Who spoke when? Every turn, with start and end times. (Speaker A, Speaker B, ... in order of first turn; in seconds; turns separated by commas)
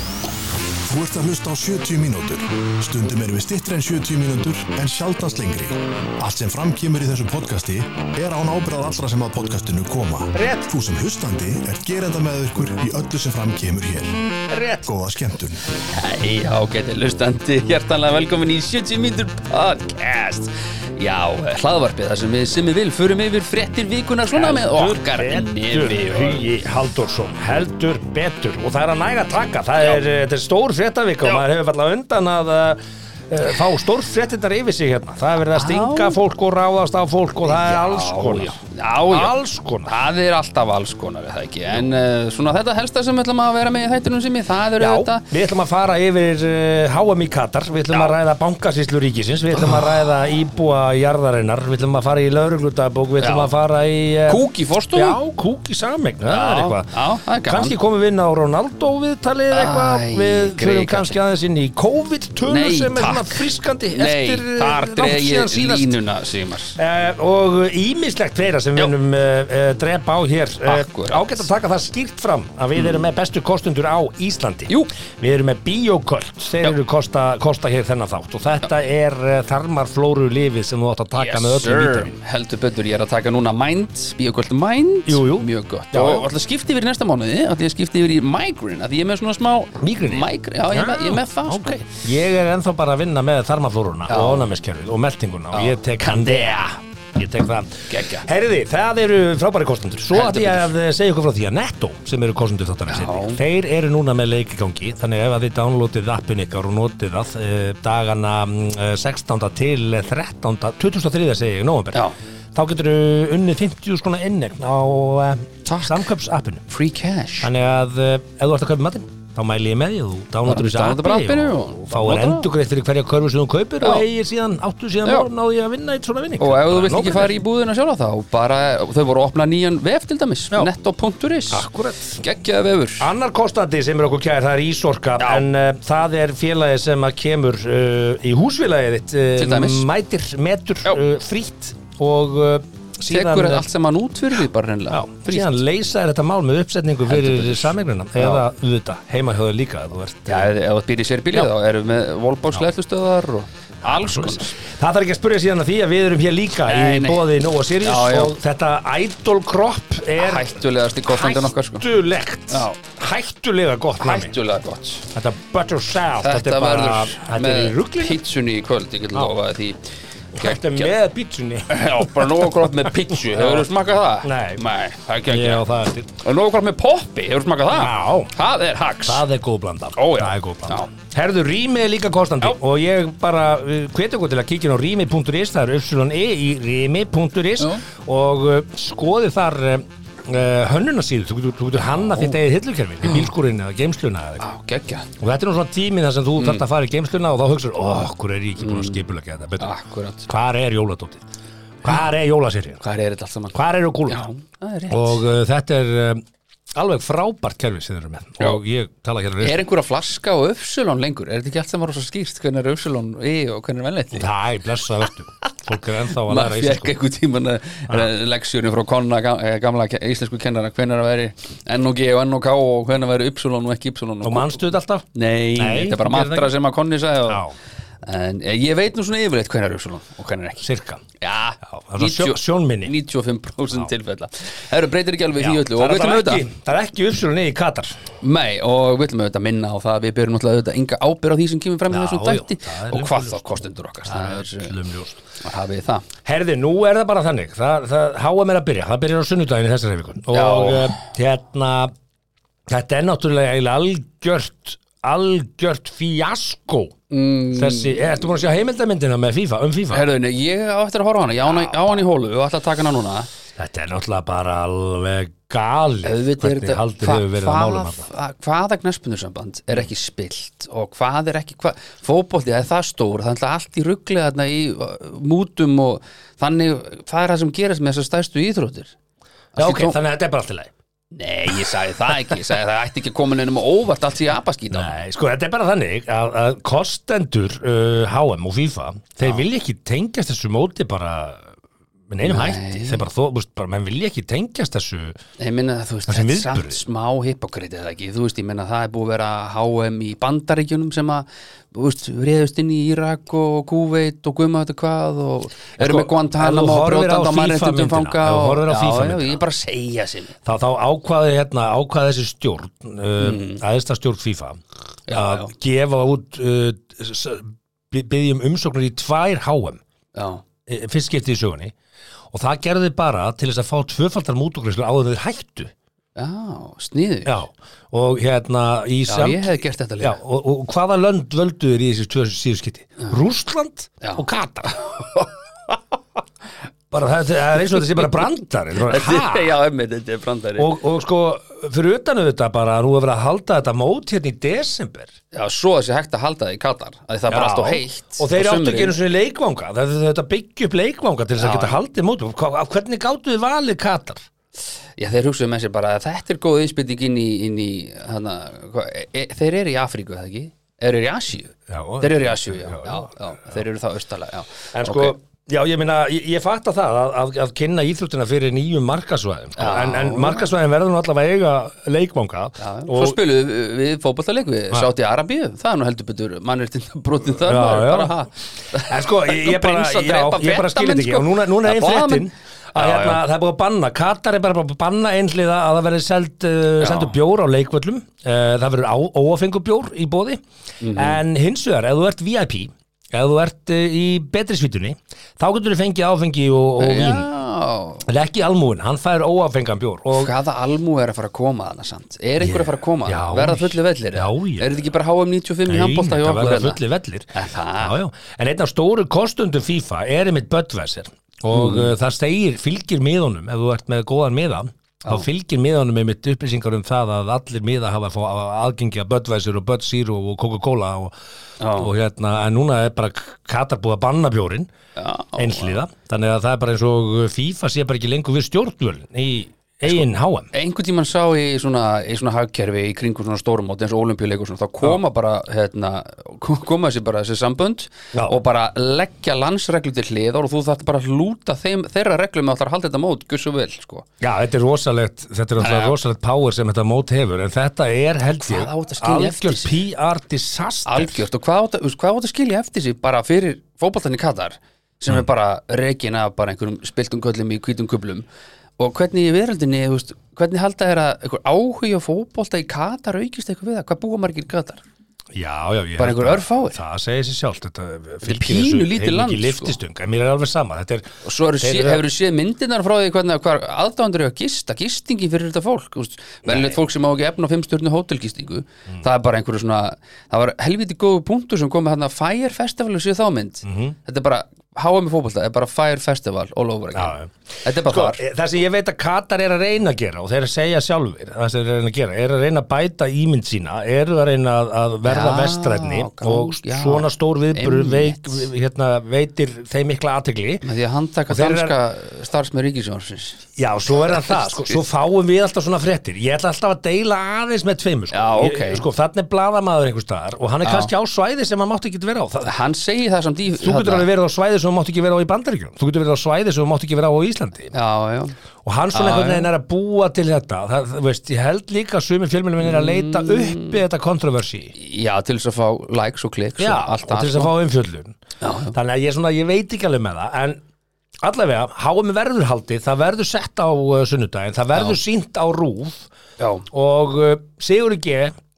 Speaker A: 0.9-14.2, Speaker B: 10.3-10.7, Speaker B: 14.5-14.9, Speaker A: 14.9-15.6, Speaker C: 15.9-26.4, Speaker B: 24.3-39.9, Speaker C: 35.5-36.2, Speaker C: 37.4-39.4, Speaker C: 39.9-45.2, Speaker B: 44.8-54.4, Speaker C: 47.9-48.2, Speaker C: 49.5-50.0, Speaker C: 53.2-53.5, Speaker C: 54.3-55.2, Speaker B: 54.9-66.0, Speaker C: 56.2-57.8, Speaker C: 59.5-61.2, Speaker C: 62.5-66.8, Speaker B: 66.8-82.1, Speaker C: 70.6-71.5, Speaker C: 72.8-73.0, Speaker C: 81.1-91.8, Speaker B: 85.1-86.3, Speaker B: 89.8-112.0, Speaker C: 94.1-94.5, Speaker C: 95.5-96.6, Speaker C: 97.9-98.3, Speaker C: 100.1-100.7, Speaker C: 102.9-103.4, Speaker B: 112.5-116.6, Speaker C: 115.7-116.1, Speaker C: 116.7-117.5, Speaker B: 117.4-127.4, Speaker C: 120.5-122.5, Speaker C: 123.8-124.1, Speaker C: 126.4-133.1, Speaker B: 131.5-132.2, Speaker B: 133.0-143.7, Speaker C: 135.2-135.4, Speaker C: 139.4-139.9, Speaker C: 143.1-145.6, Speaker B: 144.9-150.5, Speaker C: 147.1-148.4, Speaker C: 150.3-154.6, Speaker B: 153.8-160.6, Speaker C: 156.7-157.3, Speaker C: 157.8-158.4, Speaker C: 160.2-161.8, Speaker B: 161.1-164.3, Speaker C: 162.5-162.8, Speaker C: 164.0-165.1, Speaker B: 165.1-168.2, Speaker C: 166.2-170.9, Speaker B: 170.3-173.7, Speaker C: 171.7-175.7, Speaker B: 174.2-174.6, Speaker B: 175.3-176.2, Speaker C: 176.2-179.2, Speaker B: 177.7-178.3, Speaker B: 179.1-194.5, Speaker C: 180.0-180.9, Speaker C: 194.4-195.1, Speaker B: 195.2-199.7, Speaker C: 196.4-196.6, Speaker C: 198.6-199.0, Speaker C: 199.6-200.3, Speaker B: 200.3-201.2, Speaker B: 201.8-202.8, Speaker C: 202.8-203.6, Speaker B: 203.5-204.2, Speaker C: 204.1-205.2, Speaker B: 204.9-206.2, Speaker B: 206.8-209.7, Speaker C: 209.4-214.3, Speaker B: 214.1-217.0, Speaker C: 216.1-224.6, Speaker B: 224.2-226.5, Speaker C: 225.2-227.4, Speaker B: 227.3-227.6, Speaker C: 228.0-230.7, Speaker B: 230.6-231.0, Speaker C: 231.2-236.4, Speaker B: 231.6-232.9, Speaker B: 235.4-238.0, Speaker C: 238.2-244.8, Speaker B: 241.9-245.2, Speaker C: 245.4-246.1, Speaker B: 246.2-251.9, Speaker C: 250.3-251.0, Speaker B: 252.7-257.0, Speaker C: 257.1-258.3, Speaker B: 257.5-260.1, Speaker C: 259.9-263.3, Speaker B: 263.6-268.1, Speaker C: 266.0-278.9, Speaker C: 279.6-280.0, Speaker B: 279.6-280.7, Speaker C: 281.1-285.0, Speaker B: 284.7-291.5, Speaker B: 292.1-295.2, Speaker C: 292.2-293.0, Speaker C: 295.4-310.4, Speaker B: 296.1-296.8, Speaker B: 305.8-309.4, Speaker B: 310.4-319.8, Speaker C: 313.2-313.6, Speaker C: 315.1-315.5, Speaker C: 320.1-320.4, Speaker B: 320.7-321.7, Speaker B: 322.3-325.7, Speaker C: 326.2-327.4, Speaker B: 327.3-335.1, Speaker C: 329.1-330.2, Speaker C: 334.8-335.3, Speaker B: 336.9-339.5, Speaker C: 337.8-338.2, Speaker C: 338.8-340.7, Speaker B: 340.6-345.1, Speaker C: 345.3-349.0, Speaker B: 347.3-354.3, Speaker C: 351.4-351.8, Speaker C: 355.0-365.1, Speaker B: 361.7-363.1, Speaker B: 364.7-373.2, Speaker C: 369.6-370.5, Speaker C: 372.6-383.2, Speaker B: 377.4-378.1, Speaker B: 378.8-397.3, Speaker C: 386.8-387.2, Speaker C: 390.8-391.2, Speaker C: 396.8-398.1, Speaker B: 398.1-400.3, Speaker C: 400.1-406.8, Speaker B: 402.4-404.7, Speaker B: 405.7-421.1, Speaker C: 407.3-408.0, Speaker C: 411.5-411.9, Speaker C: 421.6-421.9, Speaker B: 421.7-424.7, Speaker C: 425.0-425.8, Speaker B: 425.4-430.5, Speaker C: 430.5-444.1, Speaker B: 444.2-451.3, Speaker C: 445.6-445.9, Speaker C: 448.4-449.8, Speaker C: 450.9-458.3, Speaker C: 458.8-464.8, Speaker B: 465.4-472.1, Speaker C: 466.0-466.8, Speaker C: 468.2-469.8, Speaker C: 471.2-488.2, Speaker B: 476.5-476.7, Speaker B: 483.6-484.0, Speaker B: 486.9-500.7, Speaker C: 495.0-498.5, Speaker C: 500.6-503.4, Speaker B: 501.3-501.8, Speaker B: 503.6-512.5, Speaker C: 504.1-504.8, Speaker C: 508.1-508.9, Speaker C: 510.6-510.9, Speaker C: 512.4-514.1, Speaker B: 513.6-517.8, Speaker C: 517.7-518.4, Speaker B: 518.6-524.7, Speaker C: 518.9-519.5, Speaker C: 522.6-523.8, Speaker C: 524.8-527.5, Speaker B: 526.6-528.2, Speaker C: 528.4-528.8, Speaker B: 528.7-530.6, Speaker B: 531.2-536.1, Speaker C: 534.7-535.0, Speaker C: 536.4-536.7, Speaker B: 536.7-538.3